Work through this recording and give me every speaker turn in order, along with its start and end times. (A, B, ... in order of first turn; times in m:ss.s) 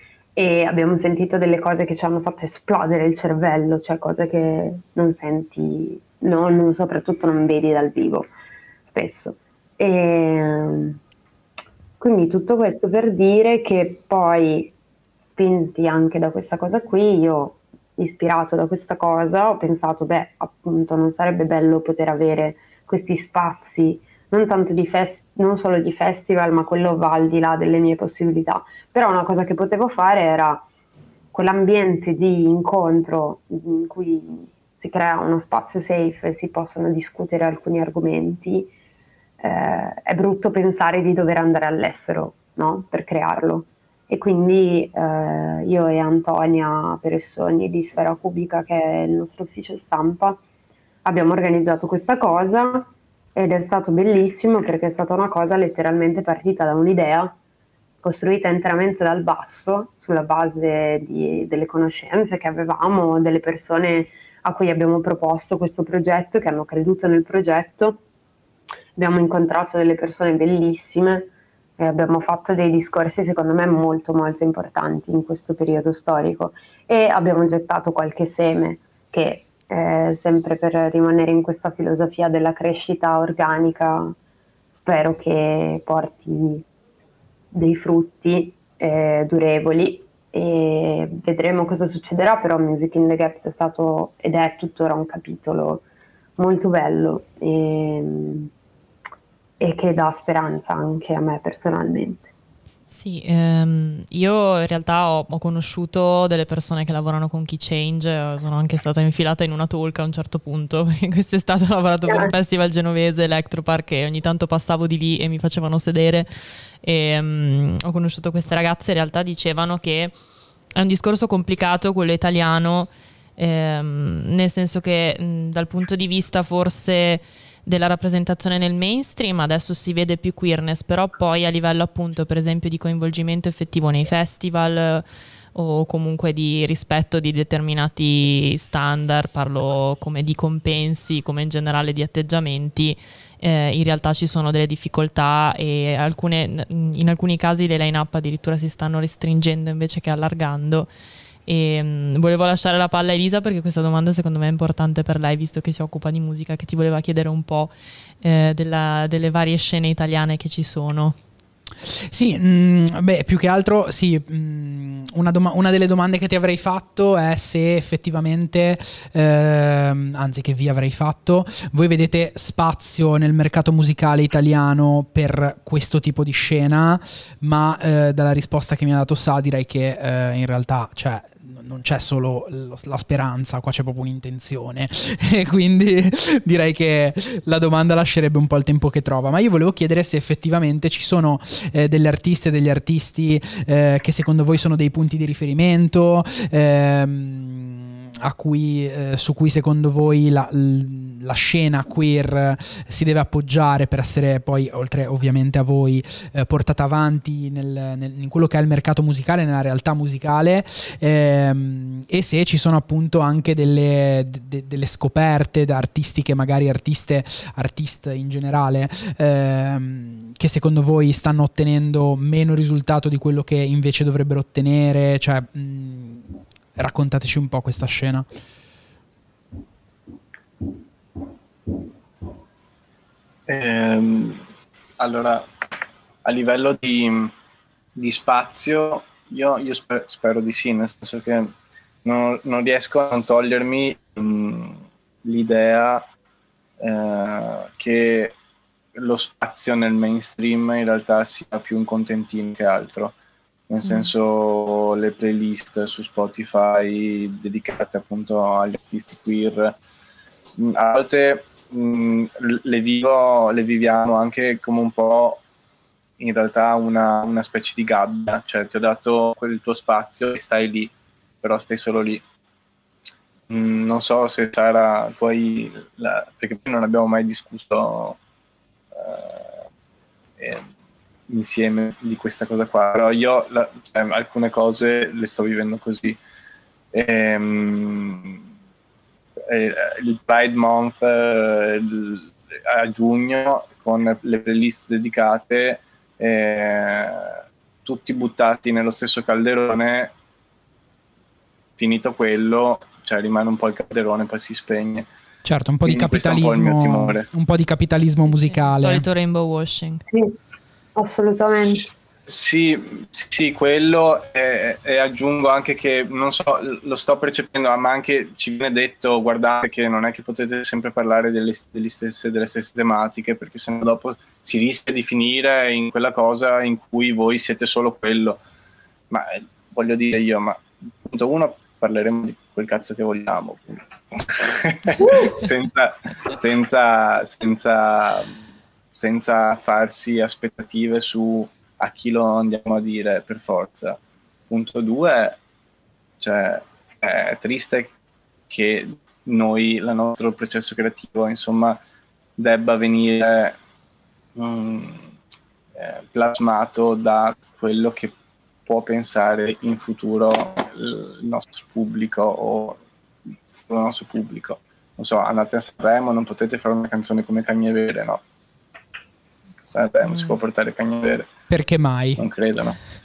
0:00.4-0:08.3 A
0:08.8-0:11.0 A
0:12.0-0:14.7 A
0:15.3-0:30.6 A
0:31.3-0:38.7 A
0:39.4-0:50.4 A
0:51.0-0:57.4 A
0:58.0-1:08.0 A
1:09.0-1:24.2 A
1:24.8-1:26.6 A
1:27.5-1:35.8 A
1:36.4-1:38.5 A
1:39.6-1:42.3 A
1:42.9-2:00.2 B
1:52.1-1:52.3 A
2:00.7-2:30.9 B
2:31.4-2:41.2 B
2:41.8-3:48.3 C
3:53.5-3:54.4 D
3:55.0-3:55.4 D
3:56.2-3:57.3 D
3:58.0-4:01.5 D
4:02.0-4:06.0 D
4:06.8-4:08.3 D
4:08.9-4:13.1 D
4:13.7-4:19.8 D
4:13.8-4:14.1 B
4:20.6-4:25.4 D
4:26.2-4:32.2 D
4:33.5-4:38.2 D
4:38.9-4:39.6 D
4:40.4-4:40.7 D
4:41.3-4:46.2 D
4:46.9-4:48.4 D
4:49.5-5:00.1 D
5:01.8-5:05.1 D
5:05.4-5:09.0 C
5:05.8-5:07.3 D
5:08.2-5:10.0 B
5:10.1-5:10.3 A
5:11.0-5:11.9 A
5:12.2-5:28.4 D
5:29.1-5:38.3 D
5:35.0-5:35.4 A
5:38.9-5:44.0 D
5:44.5-5:45.4 D
5:46.2-5:47.9 D
5:48.5-5:51.8 D
5:52.4-5:53.6 D
5:54.4-5:55.1 D
5:55.8-5:58.1 D
5:58.6-6:02.8 D
6:03.6-6:08.2 D
6:09.6-6:11.3 D
6:10.1-6:10.4 B
6:11.5-6:12.3 C
6:12.2-6:12.8 D